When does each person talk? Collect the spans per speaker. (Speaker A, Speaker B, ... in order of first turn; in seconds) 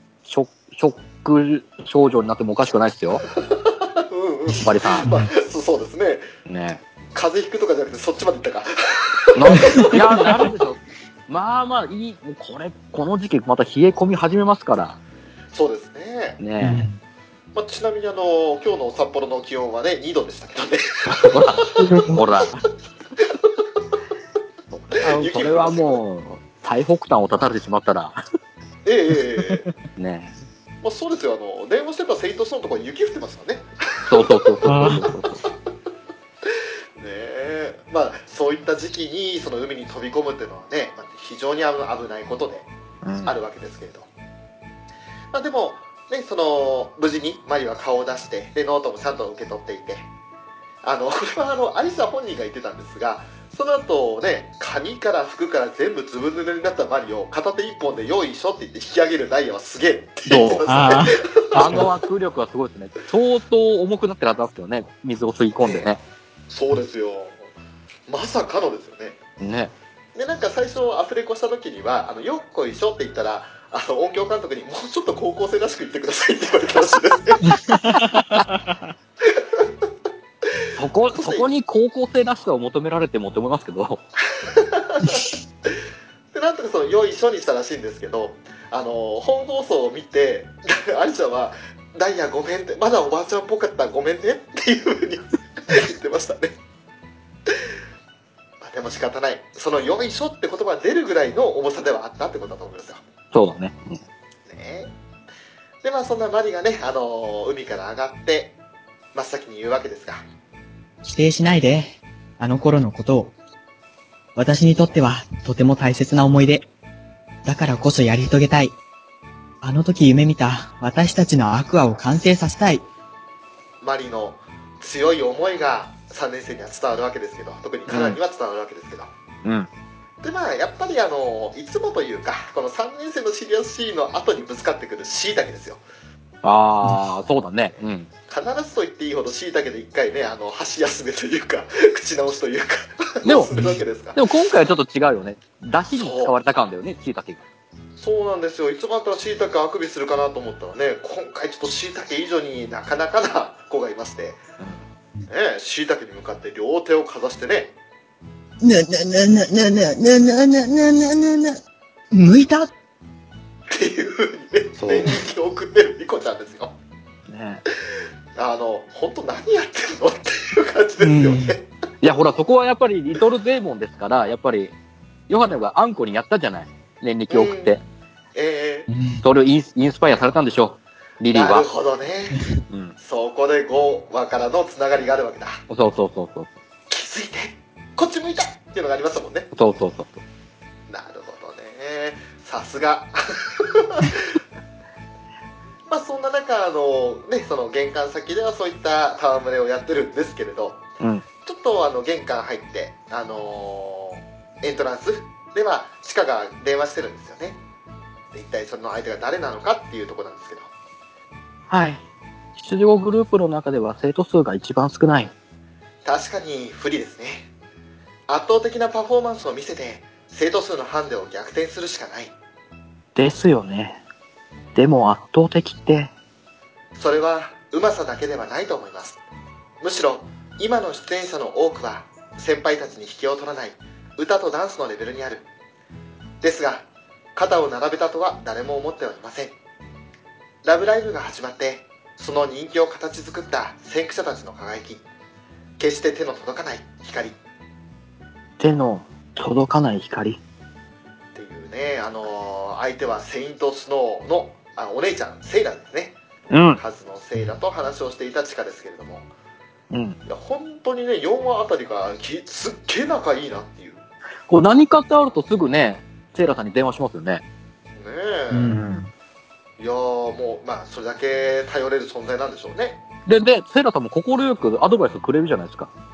Speaker A: 0.2-3.2, 4.5-5.1, 6.5-6.8, 9.3-15.0, 16.4-16.9, 21.1-22.6, 24.7-28.2, 30.0-30.3, 34.1-35.4, 43.0-43.3, 60.3-60.6, 61.5-66.0, 69.4-69.7, 80.7-84.0, 103.3-104.0, 127.9-128.2, 129.4-129.7, 136.4-138.1, 143.2-143.6, 144.1-147.4, 164.8-165.1, 167.3-167.6, 172.0-174.7, 175.3-177.8, 179.2-181.7, 182.7-182.9, 185.7-186.5, 189.5-190.2, 211.7-212.0, 212.6-215.3, 223.1-224.0, 224.7-226.1, 248.6-250.4, 256.5-256.8, 259.9-260.2, 264.5-267.4, 268.7-269.1, 273.2-275.9
Speaker B: 3.3-6.3, 7.1-10.2, 15.5-16.4, 17.5-21.4, 25.0-26.0, 28.8-29.6, 30.8-34.6, 36.5-42.7, 43.2-44.1, 45.3-50.1, 50.8-61.9, 65.6-65.9, 66.5-67.4, 68.1-69.2, 70.1-77.6, 79.3-79.6, 81.1-81.5, 84.4-85.7, 86.3-96.5, 98.6-103.0, 104.5-104.9, 105.8-108.5, 109.1-110.2, 123.8-129.1, 130.2-135.8, 138.3-144.2, 145.9-146.3, 148.0-154.4, 155.3-157.7, 163.7-166.7, 168.3-171.7, 177.3-177.8, 178.3-178.9, 181.3-182.4, 183.0-185.6, 186.9-189.5, 190.9-194.4, 195.9-200.8, 201.4-207.6, 208.3-210.7, 216.0-217.5, 218.3-222.3, 227.0-229.2, 229.8-235.4, 236.4-239.5, 240.6-245.0, 245.8-247.3, 251.3-256.1, 256.7-259.3, 260.3-264.0, 268.0-268.8, 269.8-273.0
Speaker C: 16.6-17.0, 21.8-22.2, 29.4-29.7, 34.6-35.0, 60.7-61.2, 77.5-78.8, 111.0-113.3, 114.3-116.7, 117.4-118.7, 119.6-122.8, 143.5-143.8, 158.6-161.6, 162.1-162.7, 171.0-171.6, 178.9-179.2, 268.5-269.1